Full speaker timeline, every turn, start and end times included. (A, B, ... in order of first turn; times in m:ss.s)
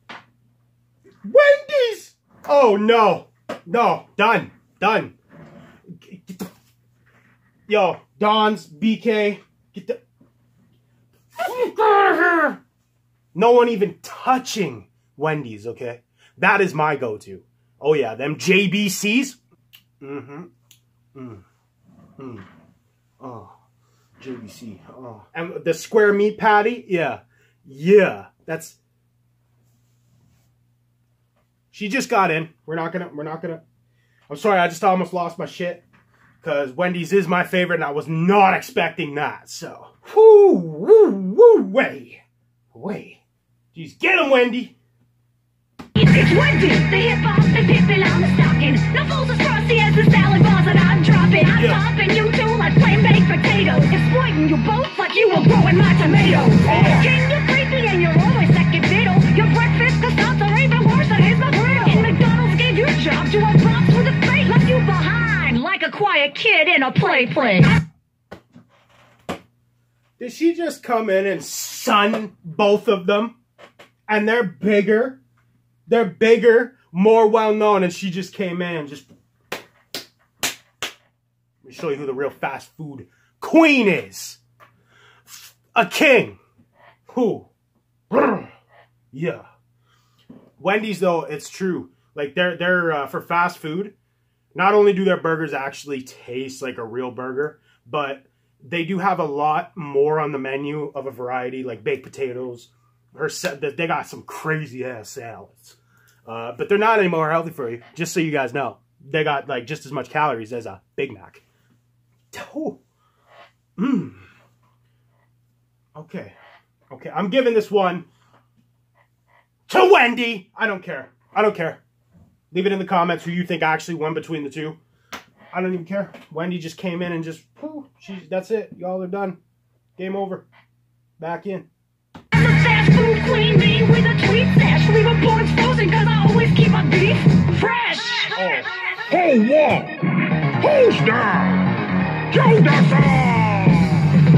0:01.2-0:05.2 A
0:06.0-0:06.5 A
0:07.7-0:10.0 A
0:11.4-0:12.6 A
0:13.3-0:19.4 A
0:20.0-0:20.5 A
0:21.2-0:21.4 A
0:22.2-0:22.5 A
0:23.2-0:23.6 A
0:24.2-0:28.8 A
0:31.7-0:33.6 A
0:34.3-0:35.8 A
0:36.4-0:42.2 A
0:42.7-0:43.2 A
0:43.7-0:44.8 A
0:46.0-1:07.8 B
0:51.5-0:51.8 A
0:56.6-0:57.1 A
1:01.8-1:02.1 A
1:10.2-1:13.4 A
1:14.1-1:15.2 A
1:15.9-1:19.1 A
1:21.6-1:24.4 A
1:25.3-1:26.4 A
1:27.1-1:27.5 A
1:28.1-1:28.5 A
1:29.1-1:29.4 A
1:30.6-1:34.0 A
1:34.5-1:51.4 A
1:52.3-1:52.8 A
1:53.8-1:54.3 A
1:56.0-1:56.4 A
1:56.9-1:58.1 A
1:59.7-2:01.8 A
2:02.5-2:04.8 A
2:05.5-2:09.4 A
2:10.0-2:10.5 A
2:11.2-2:11.7 A
2:12.3-2:18.4 B
2:18.4-2:18.8 A
2:19.1-2:20.0 C
2:20.6-2:21.7 C
2:22.3-2:24.1 C